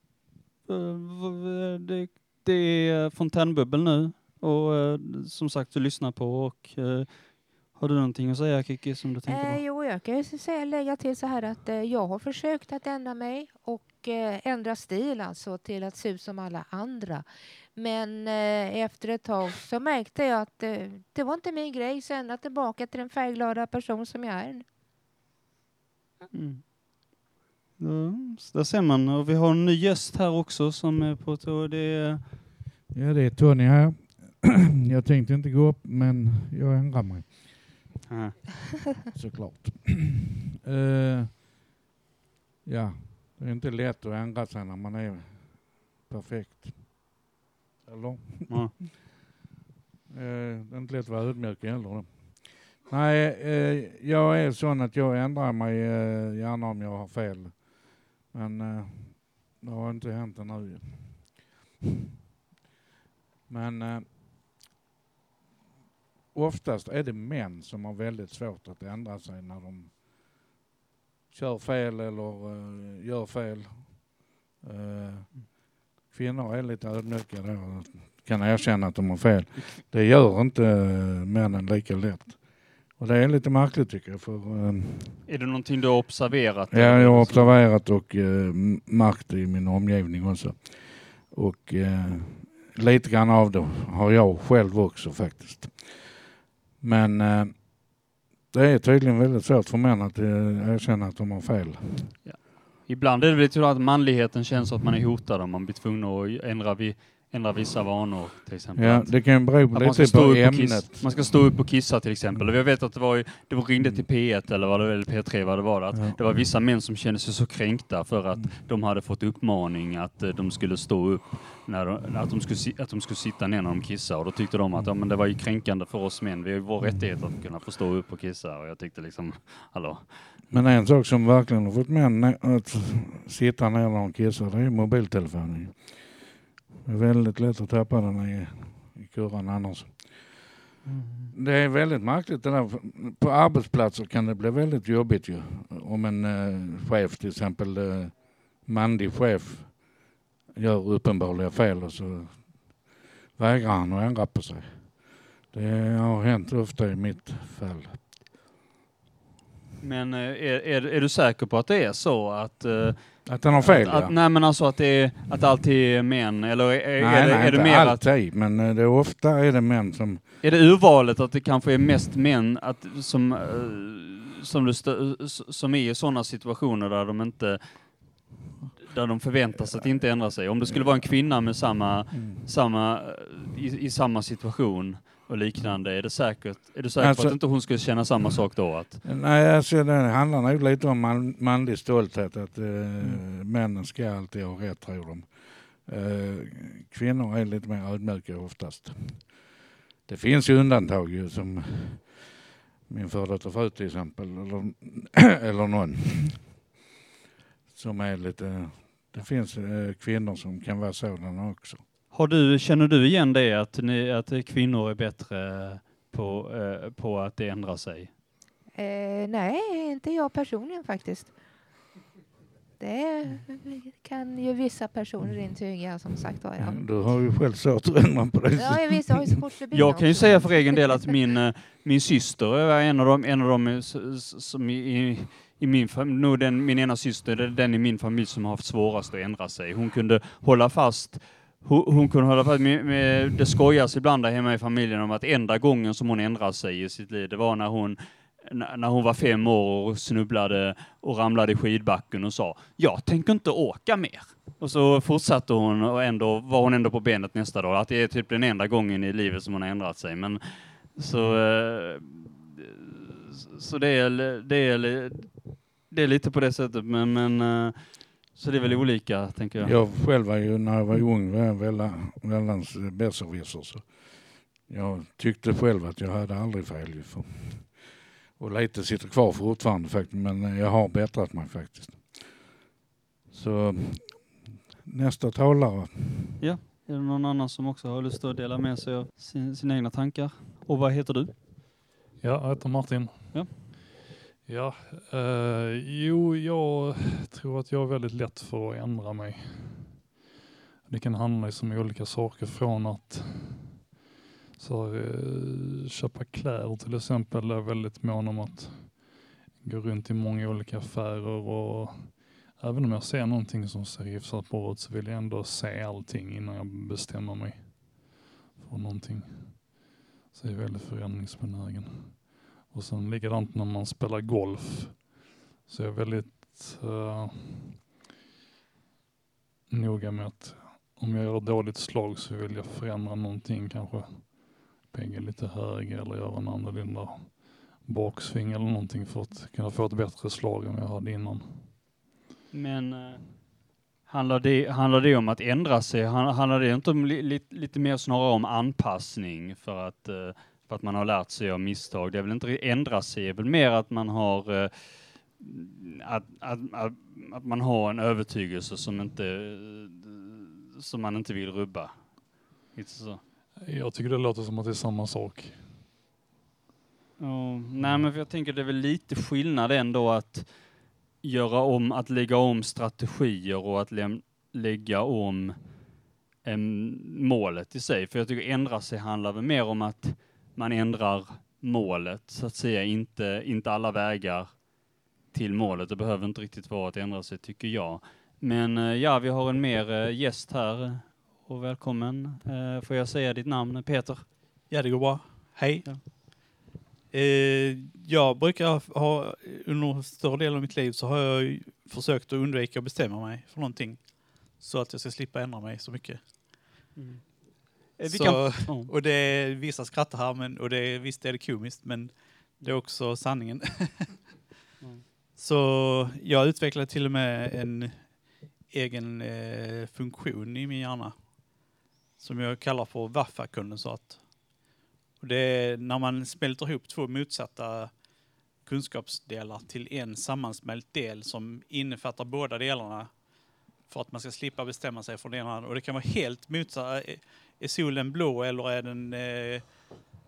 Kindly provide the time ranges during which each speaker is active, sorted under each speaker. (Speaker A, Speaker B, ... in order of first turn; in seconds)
Speaker A: 0.7-9.6, 26.3-27.2, 27.8-32.4, 38.1-38.4, 48.5-48.7, 85.3-87.6, 102.2-130.3, 140.8-141.3, 159.8-168.0, 170.4-178.2, 178.8-189.0, 212.1-218.1, 229.7-269.9, 286.4-291.3, 293.3-293.6, 342.5-363.2, 367.2-375.6, 376.4-384.6, 385.3-394.3, 406.9-408.9
Speaker B: 9.3-24.6, 218.7-221.3, 222.8-226.8, 228.6-231.1
Speaker C: 32.9-37.6, 39.1-41.4, 42.6-47.1, 47.8-49.0, 50.1-61.6, 63.5-64.1, 66.3-70.1, 71.3-85.2, 86.7-96.1, 96.8-102.2, 108.8-111.5, 115.9-116.2, 126.8-127.2, 130.5-136.3, 136.8-140.5, 141.3-158.0, 163.2-164.1, 167.0-170.2, 179.6-181.2, 182.1-182.5, 186.9-188.5, 189.0-199.5, 200.1-202.3, 202.9-206.7, 207.7-211.8, 226.6-229.4, 261.1-261.4, 269.6-282.4, 283.3-286.4
Speaker D: 292.2-293.7, 294.4-300.0, 300.8-303.8, 304.6-327.9, 329.7-341.7, 363.6-365.8
Speaker E: 394.7-396.1, 397.1-406.6, 408.0-414.1, 415.3-421.6, 422.2-424.6, 425.2-428.0, 428.6-433.2, 433.9-439.9